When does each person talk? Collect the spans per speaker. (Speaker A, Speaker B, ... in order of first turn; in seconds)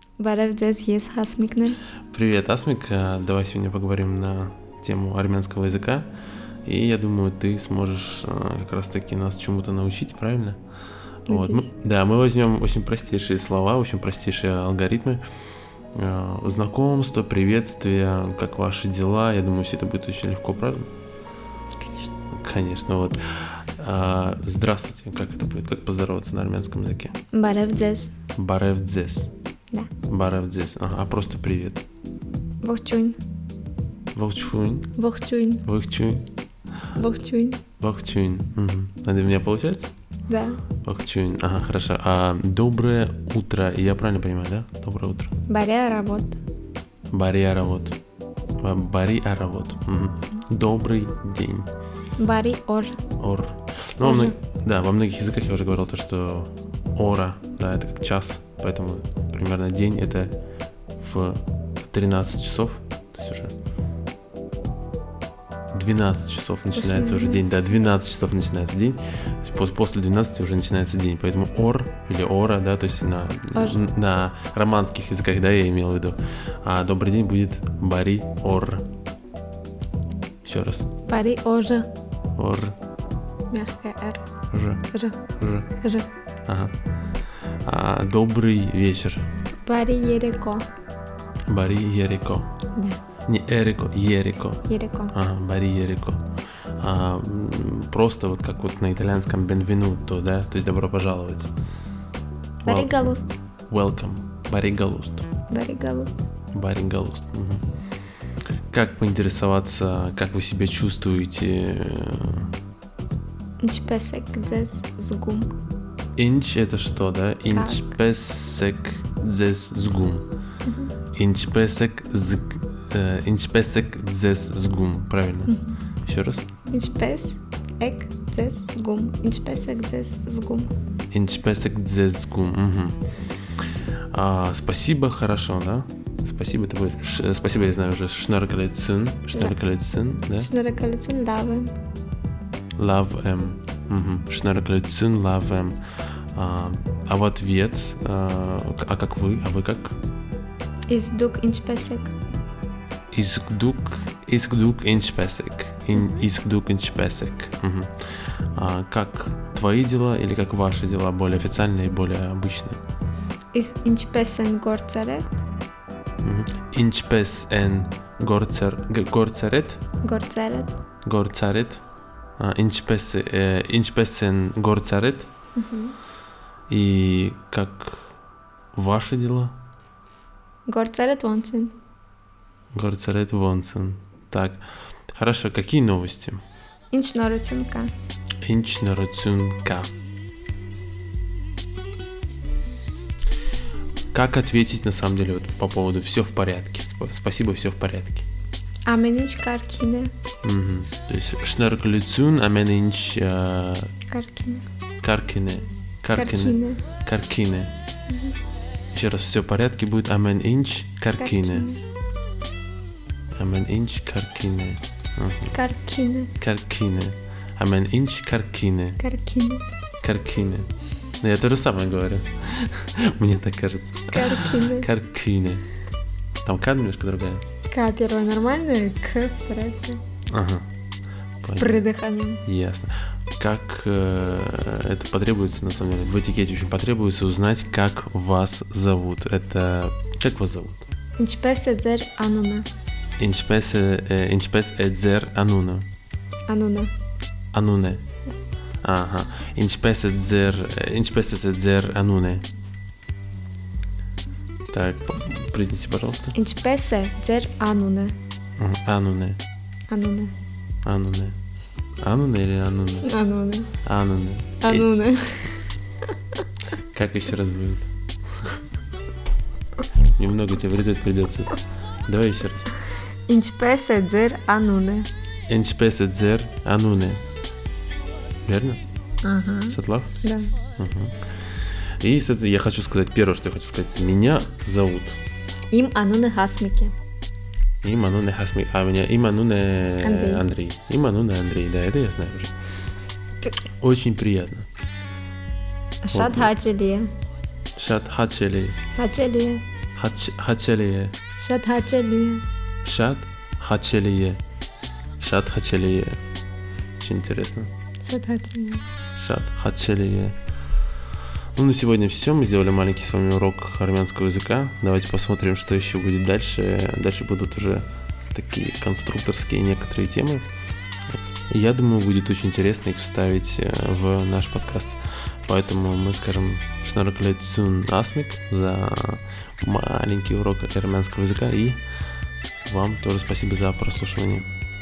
Speaker A: 0.2-1.8, 11.3-11.7, 21.8-22.1, 27.3-28.1, 32.6-33.2, 35.0-35.6, 37.0-37.6, 40.3-40.6, 45.5-46.4, 52.2-53.0, 54.0-54.4, 66.8-67.8, 81.1-81.9, 83.5-84.2, 84.9-85.2, 85.8-86.1, 89.6-90.7, 92.8-93.0, 94.7-95.1, 102.7-103.4, 105.5-106.2, 113.6-115.5, 117.5-117.9, 120.7-120.9, 125.5-125.8, 126.7-130.7, 140.4-141.8, 150.9-152.1, 163.5-165.4, 170.0-170.8, 175.6-176.0, 180.7-181.8, 186.9-187.9, 198.9-200.1, 204.1-204.7, 206.2-206.8, 208.1-208.4, 211.2-211.8, 215.5-216.3, 219.0-219.7, 224.1-224.9, 227.7-230.0, 231.4-232.4, 241.2-242.7, 246.5-246.9, 256.4-258.1, 259.9-260.3, 263.0-263.7, 264.6-265.7, 273.3-275.1, 279.2-280.5, 285.7-286.9, 290.0-290.5, 296.0-297.1, 299.0-299.6, 301.4-302.4, 308.0-308.8
Speaker B: 2.1-6.1, 6.7-10.6, 11.3-15.2, 15.9-20.9, 22.3-27.1, 28.4-29.3, 30.1-31.8, 34.1-34.9, 35.6-36.3, 37.8-39.9, 40.8-45.3, 47.1-48.0, 48.6-51.7, 53.2-60.3, 61.0-63.5, 65.7-78.9, 80.5-80.9, 82.4-82.8, 84.5-84.8, 85.4-85.7, 86.5-86.7, 87.6-89.3, 91.5-92.5, 93.3-96.2, 96.8-101.5, 102.6-103.2, 103.7-105.3, 106.5-107.6, 108.7-112.5, 116.2-120.3, 121.1-126.5, 131.1-133.0, 134.1-140.5, 142.8-145.8, 146.3-150.0, 153.1-157.9, 158.5-162.8, 166.2-169.8, 171.1-171.8, 172.4-175.3, 176.7-178.2, 178.7-179.6, 182.7-186.4, 188.4-189.9, 194.1-198.3, 200.4-203.9, 205.0-207.7, 208.9-211.7, 213.4-215.6, 216.4-219.0, 220.0-220.7, 221.2-225.7, 226.4-227.4, 230.3-230.7, 231.4-231.8, 232.4-240.9, 243.2-245.9, 247.5-248.0, 248.8-252.5, 254.7-256.4, 258.6-259.4, 260.9-261.4, 262.0-263.1, 263.8-264.9, 266.8-267.9, 270.2-272.7, 275.5-277.2, 278.4-278.8, 279.7-280.1, 280.8-285.2, 287.8-292.5, 293.8-294.7, 296.1-296.5, 297.8-298.8, 300.0-301.2, 302.8-304.4, 305.2-306.2, 307.0-307.7, 309.1-310.4, 311.6-320.5, 321.5-331.8, 332.6-334.5